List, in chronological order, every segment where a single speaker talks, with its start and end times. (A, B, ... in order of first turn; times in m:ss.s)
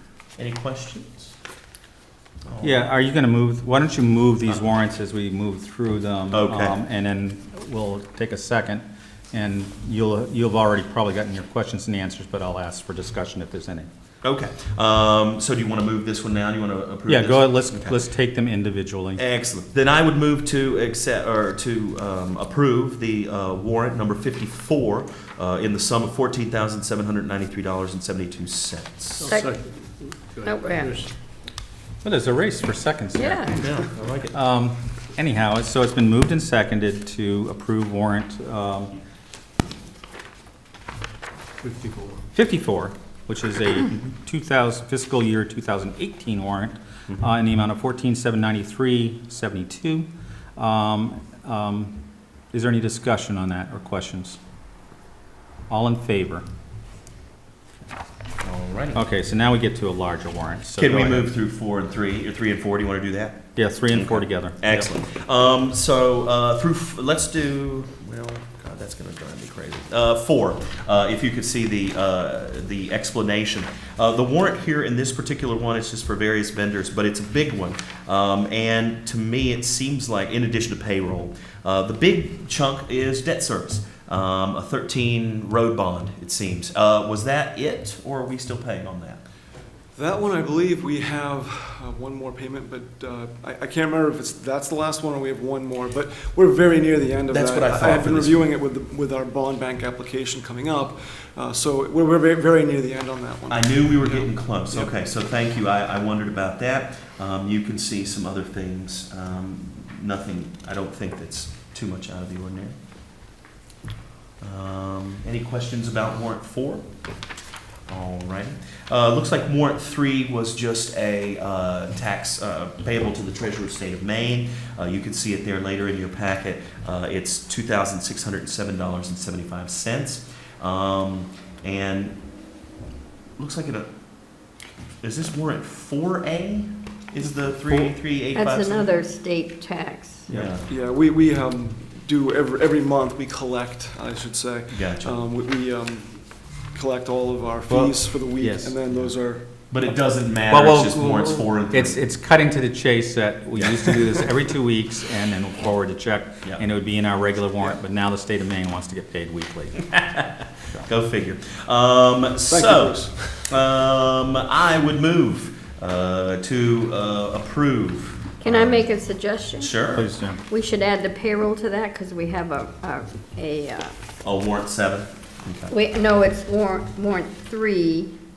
0:00.4-0:01.4 A
0:02.4-0:02.8 A
0:02.6-0:13.9 B
0:06.3-0:06.8 A
0:14.2-0:18.0 A
0:17.1-0:19.2 B
0:19.2-0:29.3 A
0:29.2-0:31.1 C
0:29.3-0:29.6 D
0:30.4-0:31.0 D
0:32.0-0:33.6 B
0:33.2-0:33.6 D
0:33.2-0:34.4 A
0:34.3-0:38.9 B
0:41.6-0:42.2 C
0:42.3-0:54.4 B
0:55.7-0:56.4 B
0:58.4-0:59.0 A
0:58.9-1:01.3 B
1:00.8-1:29.2 A
1:03.6-1:04.8 B
1:29.9-1:44.9 E
1:37.3-1:38.5 A
1:43.5-1:52.8 A
1:54.4-1:56.8 A
1:57.9-2:12.2 A
2:13.4-2:13.9 A
2:15.0-2:18.9 A
2:17.7-2:20.3 D
2:20.3-2:20.6 B
2:20.3-2:20.7 A
2:20.7-2:29.5 E
2:24.7-2:25.2 A
2:27.7-2:28.8 B
2:29.7-2:32.0 A
2:30.5-2:39.9 B
2:33.5-2:33.9 A
2:39.9-2:48.9 A
2:42.4-2:43.6 E
2:48.4-2:53.9 D
2:49.6-2:50.1 A
2:49.9-2:50.4 B
2:54.2-2:55.7 A
2:55.7-2:58.1 D